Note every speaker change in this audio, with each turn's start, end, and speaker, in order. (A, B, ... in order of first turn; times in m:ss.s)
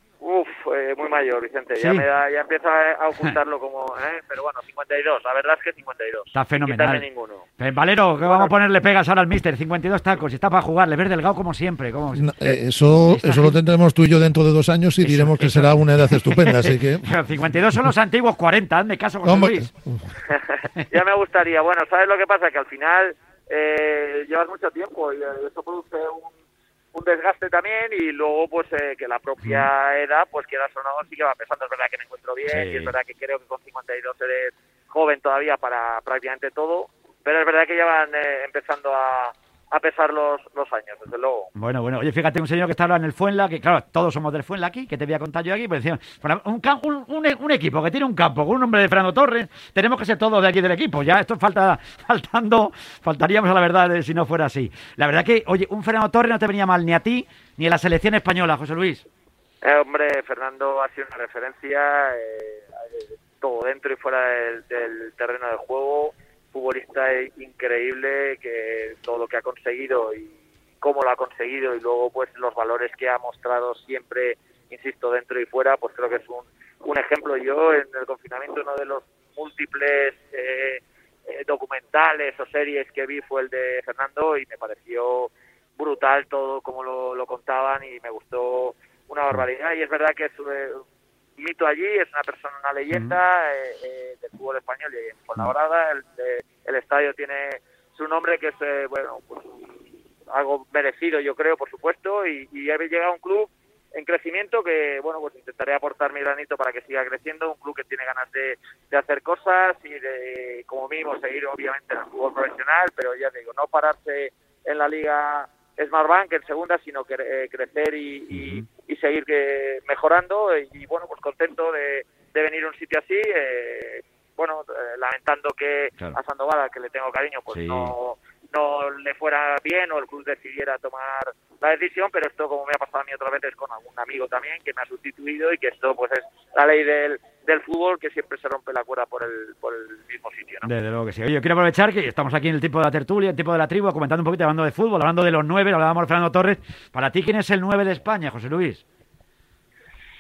0:00.2-0:07.4 A
0:06.3-0:07.1 B
0:07.6-0:13.6 B
0:08.2-0:08.6 A
0:12.2-0:17.2 C
0:15.0-0:19.7 B
0:19.2-0:20.0 C
0:20.6-0:26.3 A
0:26.9-0:41.5 A
0:29.4-0:29.7 B
0:32.4-0:33.0 B
0:41.6-0:59.1 B
0:59.6-1:30.8 A
1:31.4-1:39.7 A
1:32.9-1:33.2 B
1:40.3-2:20.7 A
1:58.3-1:58.7 B
2:07.5-2:07.9 B
2:20.6-2:28.8 B